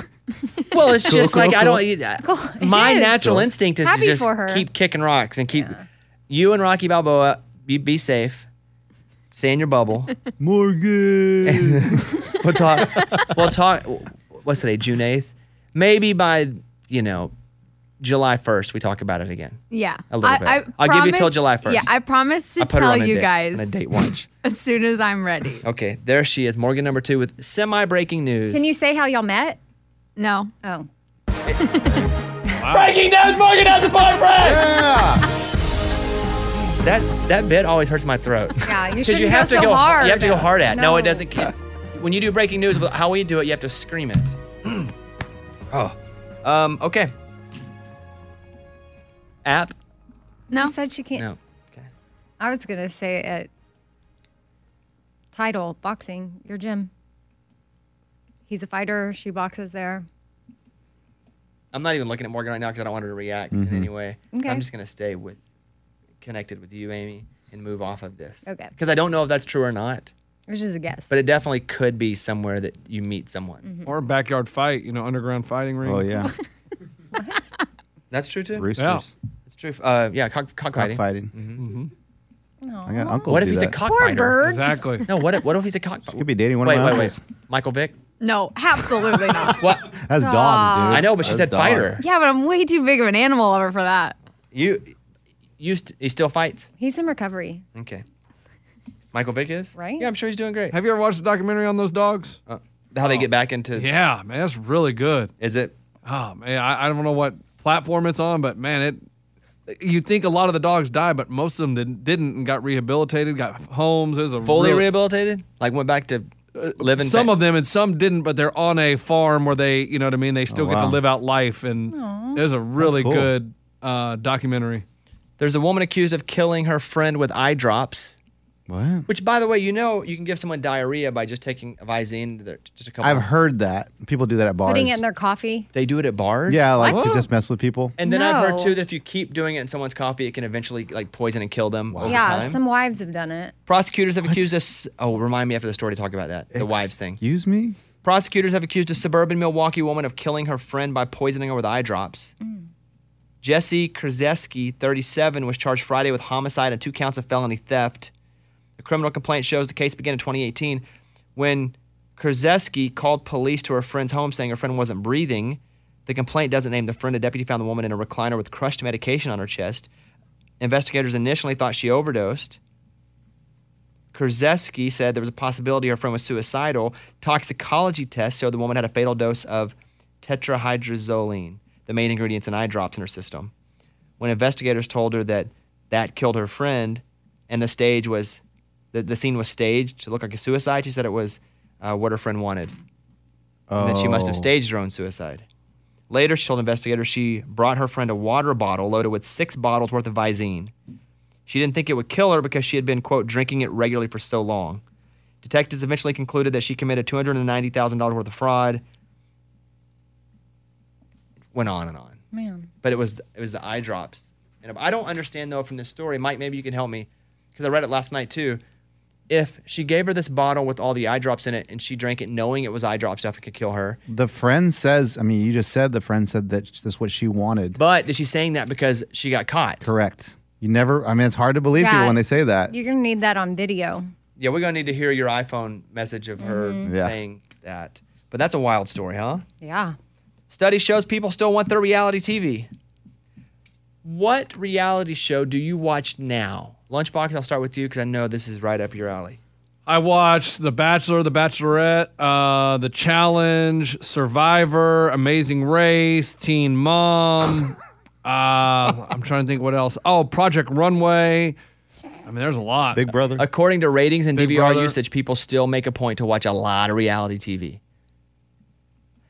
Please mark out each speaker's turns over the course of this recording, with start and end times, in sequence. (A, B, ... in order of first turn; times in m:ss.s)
0:00.7-0:05.7 A
0:00.9-0:01.8 B
0:02.2-0:03.3 C
0:03.2-0:03.5 B
0:03.8-0:04.6 C
0:05.5-0:05.8 C
0:06.3-0:08.5 A
0:09.3-0:10.1 A
0:10.4-0:13.2 B
0:11.4-0:17.3 A
0:18.0-0:21.9 A
0:19.7-0:23.8 D
0:22.6-0:24.3 A
0:24.4-0:25.6 D
0:25.6-0:28.7 A
0:28.5-0:29.6 C
0:30.2-0:30.5 D
0:30.6-0:30.9 C
0:31.6-0:32.0 D
0:32.6-0:33.0 E
0:32.7-0:34.7 A
0:34.4-0:35.2 B
0:36.8-0:44.9 A
0:38.6-0:41.2 C
0:45.7-0:47.1 A
0:49.4-0:49.7 A
0:50.5-0:51.2 C
0:51.2-0:51.9 A
0:52.4-0:53.5 C
0:55.3-0:56.9 C
0:58.5-1:00.0 C
1:01.7-1:05.4 A
1:03.5-1:03.9 B
1:04.3-1:04.6 C
1:06.2-1:10.1 A
1:08.4-1:08.7 C
1:10.5-1:11.1 C
1:11.1-1:13.6 A
1:13.6-1:13.9 C
1:13.8-1:16.2 E
1:15.8-1:16.3 B
1:18.1-1:18.7 A
1:18.5-1:19.1 B
1:18.8-1:19.0 E
1:19.5-1:21.6 A
1:20.8-1:21.3 B
1:21.6-1:21.9 E
1:22.6-1:24.9 C
1:22.9-1:23.8 B
1:23.3-1:24.4 A
1:24.4-1:25.1 E
1:25.0-1:28.0 A
1:26.1-1:27.2 B
1:28.2-1:29.6 D
1:29.3-1:32.0 B
1:29.4-1:29.9 A
1:30.2-1:31.1 C
1:30.9-1:32.0 A
1:32.0-1:34.1 D
1:34.5-1:34.9 A
1:35.6-1:36.7 A
1:36.8-1:37.6 C
1:37.8-1:38.0 A
1:39.1-1:40.8 A
1:39.8-1:40.1 C
1:40.7-1:42.4 E
1:42.5-1:43.9 A
1:43.0-1:45.3 E
1:45.4-1:45.7 A
1:46.0-1:49.0 E
1:49.7-1:54.9 E
1:54.4-1:57.3 A
1:56.6-2:04.8 E
2:00.5-2:01.0 B
2:01.9-2:02.4 C
2:02.8-2:03.3 B
2:05.4-2:08.2 A
2:08.7-2:09.1 B
2:09.1-2:13.3 A
2:13.0-2:15.0 B
2:14.6-2:15.7 C
2:15.7-2:16.8 A
2:16.5-2:18.0 B
2:16.8-2:17.2 C
2:16.9-2:17.2 E
2:18.0-2:22.6 A
2:18.0-2:18.8 C
2:21.9-2:22.5 B
2:22.0-2:23.5 C
2:23.7-2:27.2 A
2:24.2-2:24.5 B
2:26.5-2:27.8 B
2:28.0-2:32.3 A
2:33.4-2:38.1 A
2:38.8-2:40.8 A
2:41.4-2:49.9 A
2:50.6-2:52.6 A
2:54.1-3:03.5 A
3:04.2-3:08.4 A
3:08.9-3:12.7 A
3:13.7-3:14.5 B
3:13.8-3:15.4 A
3:16.1-3:20.7 A
3:21.5-3:24.8 A
3:25.4-3:28.8 A
3:31.5-3:32.2 A
3:32.3-3:32.7 C
3:32.8-3:38.6 A
3:39.3-3:44.0 A
3:44.1-3:47.8 B
3:47.8-3:49.9 A
3:49.8-3:52.7 B
3:51.8-3:54.1 C
3:54.4-3:59.4 A
3:56.4-3:56.9 C
3:56.9-3:57.2 B
3:59.6-4:00.0 C
4:00.5-4:02.7 A
4:04.0-4:09.4 A
4:09.9-4:21.6 E
4:22.2-4:23.1 E
4:22.9-4:23.4 B
4:23.4-4:27.8 A
4:24.4-4:24.9 E